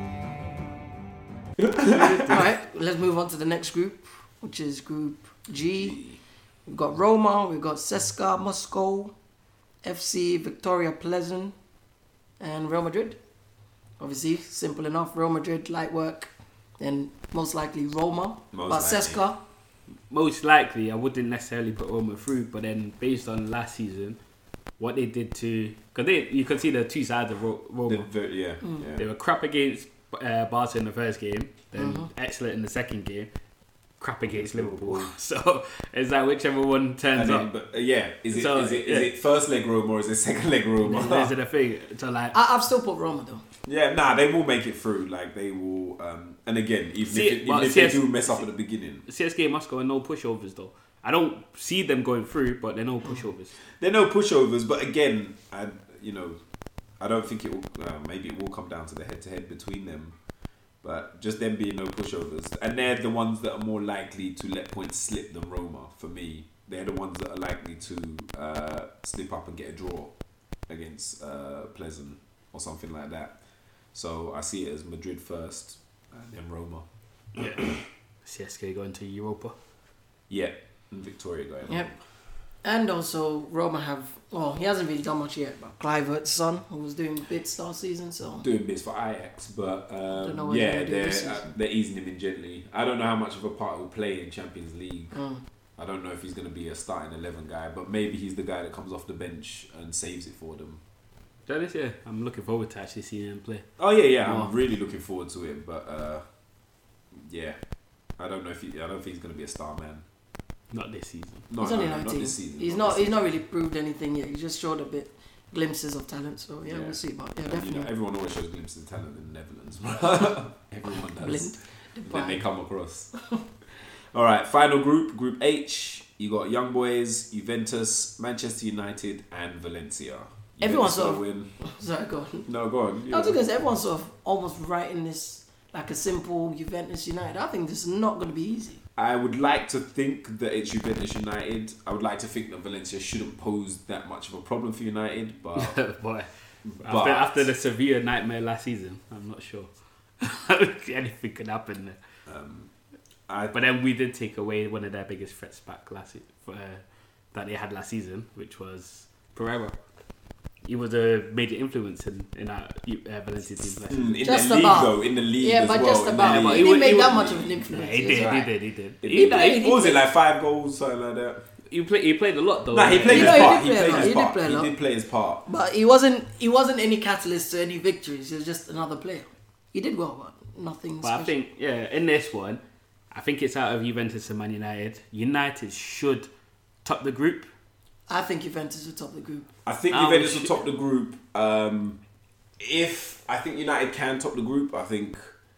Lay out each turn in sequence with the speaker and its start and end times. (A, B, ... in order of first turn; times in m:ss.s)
0:01.6-0:02.4 A
0:01.8-0:06.0 B
0:06.7-0:09.1 B
0:09.8-0:11.5 B
0:12.4-0:13.2 B
0:14.0-0:19.4 B
0:18.5-0:19.2 A
0:20.1-0:24.2 C
0:24.8-0:28.1 C
0:27.8-0:29.0 A
0:29.0-0:33.3 C
0:31.7-0:32.1 B
0:34.0-0:37.5 C
0:34.3-0:35.1 A
0:37.1-0:41.3 A
0:38.3-0:39.1 C
0:40.8-0:42.4 C
0:42.3-0:43.4 B
0:43.6-0:49.0 A
0:47.1-0:48.4 C
0:49.1-0:53.5 C
0:53.8-0:56.4 A
0:57.0-1:00.2 A
1:00.8-1:10.1 A
1:10.7-1:13.4 A
1:13.9-1:16.8 A
1:17.4-1:17.7 C
1:17.4-1:17.7 A
1:18.2-1:19.5 C
1:20.3-1:22.0 A
1:22.6-1:28.4 B
1:28.4-1:35.2 A
1:30.2-1:31.5 B
1:35.1-1:35.4 B
1:35.8-1:40.8 A
1:41.5-1:43.6 C
1:43.8-1:46.2 A
1:47.1-1:47.6 A
1:48.2-1:50.0 A
1:50.7-1:51.4 C
1:51.5-1:53.4 A
1:51.6-1:57.9 B
1:56.7-2:03.1 A
2:01.2-2:02.4 B
2:04.1-2:11.5 A
2:10.6-2:12.5 B
2:12.4-2:13.4 A
2:13.1-2:18.8 B
2:19.0-2:25.8 A
2:25.6-2:29.7 C
2:26.6-2:27.5 A
2:30.2-2:32.0 C
2:32.2-2:32.7 A
2:33.3-2:33.6 A
2:33.5-2:36.8 C
2:37.3-2:39.7 C
2:40.6-2:44.2 C
2:43.9-2:48.4 A
2:44.2-2:48.5 B
2:46.2-2:49.7 C
2:49.0-2:51.4 A
2:49.1-2:50.0 B
2:51.7-2:54.1 C
2:52.7-2:55.4 A
2:53.0-2:54.7 B
2:55.4-3:01.3 B
3:01.0-3:02.6 C
3:03.1-3:06.3 C
3:06.8-3:07.5 C
3:08.1-3:09.5 B
3:09.6-3:12.0 A
3:09.9-3:10.6 C
3:12.6-3:15.3 A